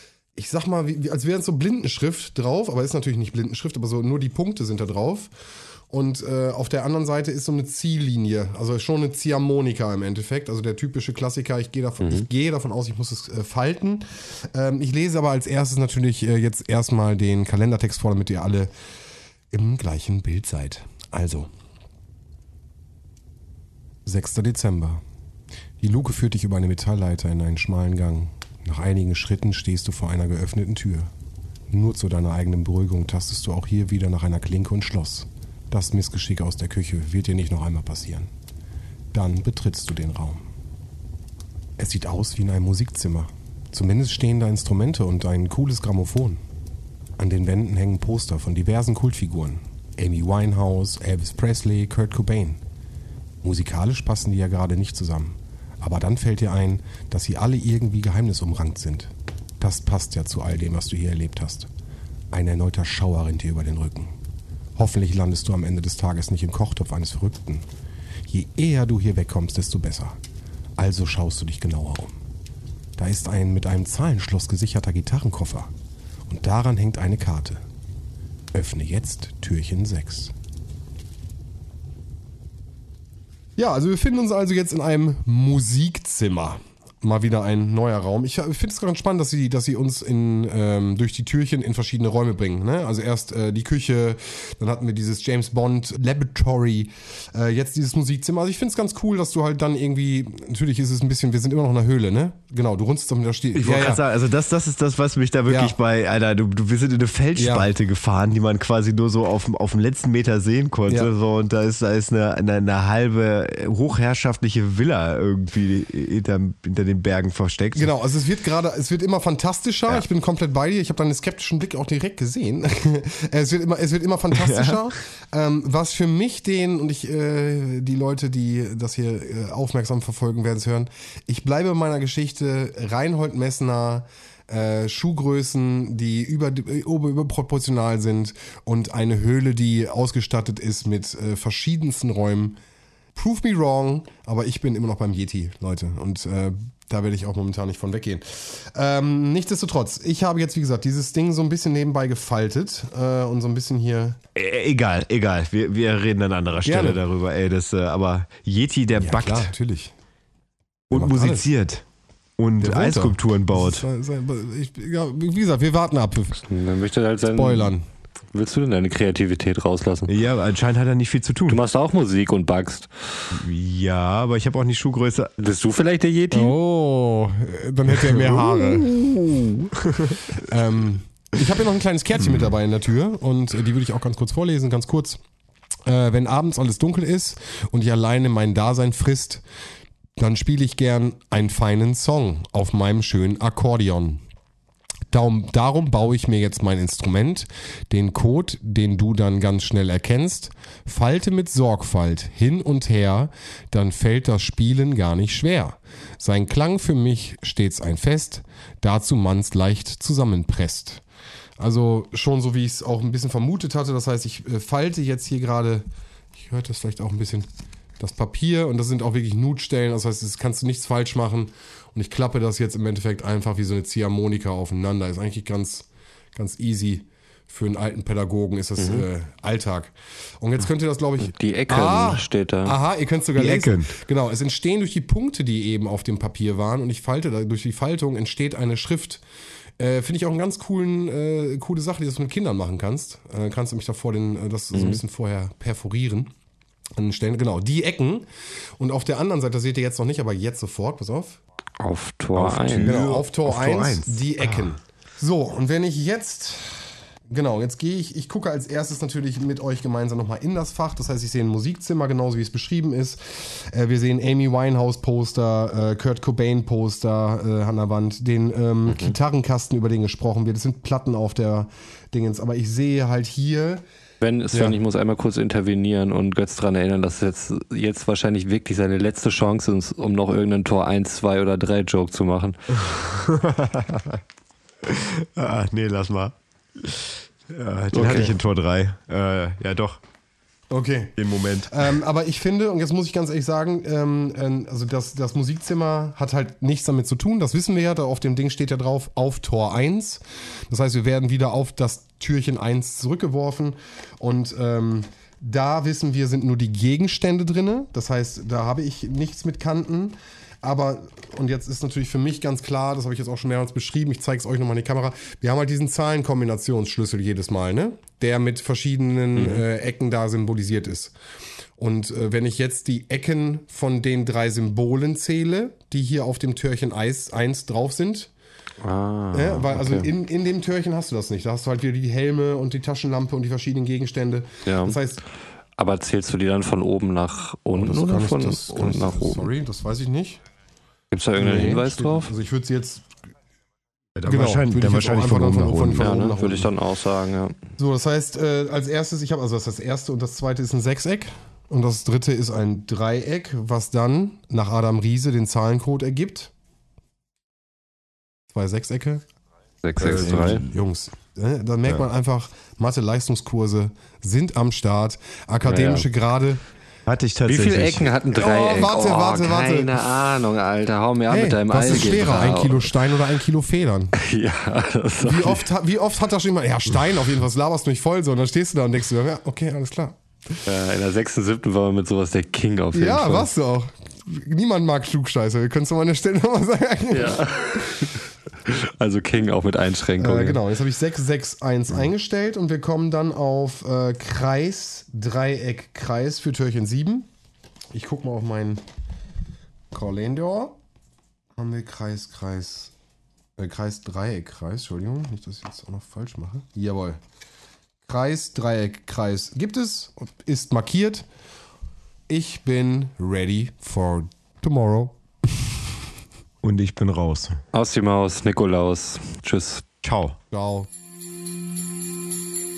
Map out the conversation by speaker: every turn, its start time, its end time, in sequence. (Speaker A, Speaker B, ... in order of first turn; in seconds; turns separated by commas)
Speaker A: 0.4-5.3, Speaker A: 5.9-18.7, Speaker B: 12.0-12.3, Speaker A: 19.5-21.5, Speaker A: 24.1-25.0, Speaker A: 25.8-31.1, Speaker A: 31.7-38.3, Speaker A: 39.1-40.5, Speaker A: 41.8-46.4, Speaker A: 47.2-52.6, Speaker A: 53.4-61.7, Speaker A: 62.3-64.1, Speaker A: 64.8-67.7, Speaker A: 68.3-70.2, Speaker A: 70.8-72.2, Speaker A: 73.0-75.7, Speaker A: 76.3-77.6, Speaker A: 78.5-80.3, Speaker A: 83.6-104.0, Speaker C: 103.5-117.9, Speaker A: 105.5-105.8, Speaker A: 107.4-107.7, Speaker A: 117.8-142.6, Speaker C: 124.3-124.9, Speaker A: 143.2-154.2, Speaker C: 154.3-159.5, Speaker A: 156.6-157.0, Speaker A: 158.9-159.9, Speaker C: 160.9-161.8, Speaker A: 160.9-161.5, Speaker C: 162.4-163.8, Speaker A: 162.6-166.4, Speaker B: 166.5-167.7, Speaker A: 167.3-167.8, Speaker B: 168.3-170.1, Speaker C: 170.1-171.6, Speaker B: 171.5-172.9, Speaker C: 173.3-175.3, Speaker B: 175.4-176.6, Speaker A: 176.3-179.0, Speaker C: 178.1-180.3, Speaker A: 180.4-185.2, Speaker C: 182.2-182.5, Speaker A: 185.9-189.4, Speaker A: 190.2-194.2, Speaker A: 195.1-211.0, Speaker A: 211.6-215.8, Speaker A: 216.4-217.5, Speaker A: 218.0-239.2, Speaker B: 228.8-229.1, Speaker B: 231.2-232.8, Speaker C: 233.4-234.0, Speaker A: 239.8-246.3, Speaker B: 244.7-245.0, Speaker A: 247.0-248.3, Speaker A: 248.8-251.4, Speaker B: 251.8-253.0, Speaker C: 252.3-254.7, Speaker A: 252.8-273.8, Speaker B: 268.9-269.1, Speaker B: 274.2-282.6, Speaker A: 274.5-274.8, Speaker C: 282.8-284.2, Speaker C: 284.8-290.0, Speaker B: 287.9-288.3, Speaker A: 288.0-288.3, Speaker A: 290.7-291.2, Speaker C: 291.2-291.7, Speaker A: 291.7-321.1, Speaker B: 319.4-319.6, Speaker A: 321.8-328.3, Speaker B: 328.8-330.1, Speaker A: 329.3-335.2, Speaker B: 334.6-335.0, Speaker B: 335.8-339.5, Speaker A: 337.7-340.4, Speaker B: 341.1-342.3, Speaker A: 341.4-343.1, Speaker C: 344.1-346.1, Speaker A: 344.3-346.7, Speaker B: 345.9-347.6, Speaker A: 347.8-356.5, Speaker A: 358.5-359.2, Speaker B: 359.8-360.6, Speaker A: 360.0-366.6, Speaker C: 360.0-360.7, Speaker B: 365.6-366.1, Speaker C: 367.1-368.1, Speaker B: 367.4-372.9, Speaker A: 368.3-370.1, Speaker A: 371.3-374.1, Speaker B: 374.1-375.6, Speaker A: 375.2-380.2, Speaker B: 380.7-383.5, Speaker A: 382.9-388.1, Speaker B: 387.1-390.6, Speaker A: 390.2-397.3, Speaker A: 397.9-398.8, Speaker A: 399.9-400.8, Speaker A: 401.6-402.9, Speaker A: 403.6-407.2, Speaker A: 408.1-411.2, Speaker A: 412.3-415.7, Speaker C: 416.6-417.6, Speaker B: 417.7-419.8, Speaker C: 420.0-420.4, Speaker A: 420.5-420.9